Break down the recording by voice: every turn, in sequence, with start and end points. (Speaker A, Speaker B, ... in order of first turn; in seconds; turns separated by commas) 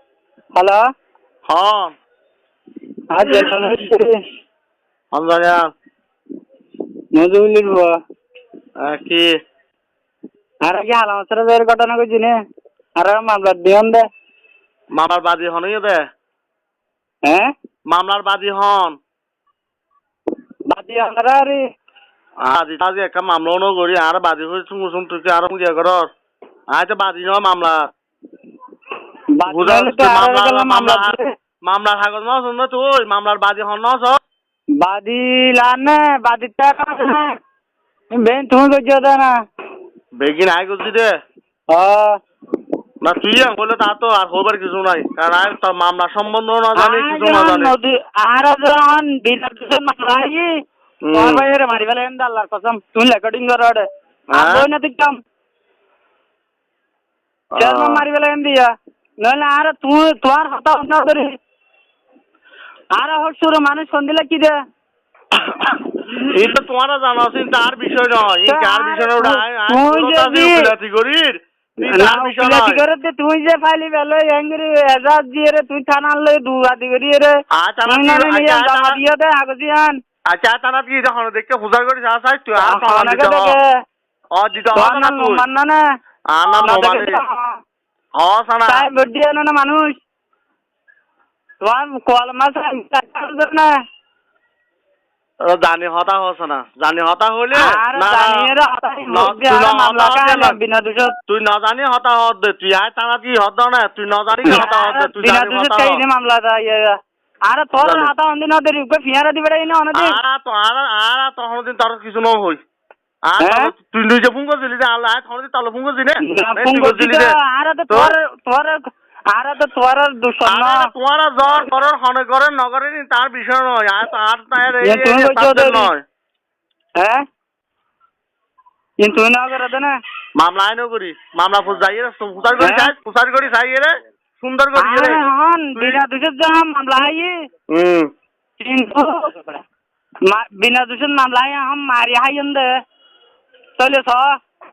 Speaker A: 0.6-0.8, Speaker B: 1.5-1.9, Speaker A: 3.1-4.1, Speaker B: 5.1-5.7, Speaker A: 7.1-8.0, Speaker B: 8.8-9.3, Speaker A: 10.6-12.3, Speaker A: 13.0-14.1, Speaker B: 14.9-16.0, Speaker A: 17.2-17.5, Speaker B: 17.9-19.0, Speaker A: 20.7-21.6, Speaker B: 22.4-26.1, Speaker B: 26.7-27.9, Speaker A: 29.4-31.3, Speaker B: 29.5-34.2, Speaker A: 34.8-37.4, Speaker A: 38.1-39.4, Speaker B: 40.2-41.1, Speaker A: 41.7-42.2, Speaker B: 43.0-47.8, Speaker A: 46.8-50.5, Speaker B: 51.0-51.5, Speaker A: 51.1-55.2, Speaker B: 54.3-54.7, Speaker B: 57.5-58.0, Speaker A: 57.6-58.7, Speaker A: 59.2-61.3, Speaker A: 62.9-64.5, Speaker B: 65.3-72.8, Speaker A: 68.5-70.7, Speaker A: 71.8-77.3, Speaker B: 77.5-79.0, Speaker A: 77.9-80.0, Speaker B: 80.3-83.6, Speaker A: 82.6-83.7, Speaker B: 84.3-85.4, Speaker A: 84.8-85.8, Speaker B: 86.3-87.2, Speaker A: 86.6-87.6, Speaker B: 88.2-88.9, Speaker A: 88.7-89.9, Speaker A: 91.6-93.7, Speaker B: 95.4-98.5, Speaker A: 97.5-101.2, Speaker B: 99.1-100.6, Speaker B: 101.3-106.0, Speaker A: 104.4-110.2, Speaker B: 107.8-108.1, Speaker B: 109.9-112.6, Speaker B: 113.3-117.3, Speaker A: 113.4-113.7, Speaker A: 116.2-118.8, Speaker B: 117.9-118.2, Speaker A: 119.3-120.9, Speaker B: 120.5-126.0, Speaker A: 124.8-125.9, Speaker A: 127.0-127.2, Speaker A: 129.0-129.9, Speaker B: 130.4-135.2, Speaker A: 132.6-132.9, Speaker A: 134.8-137.3, Speaker B: 137.7-138.1, Speaker A: 138.6-139.6, Speaker A: 140.3-142.7, Speaker A: 143.8-144.4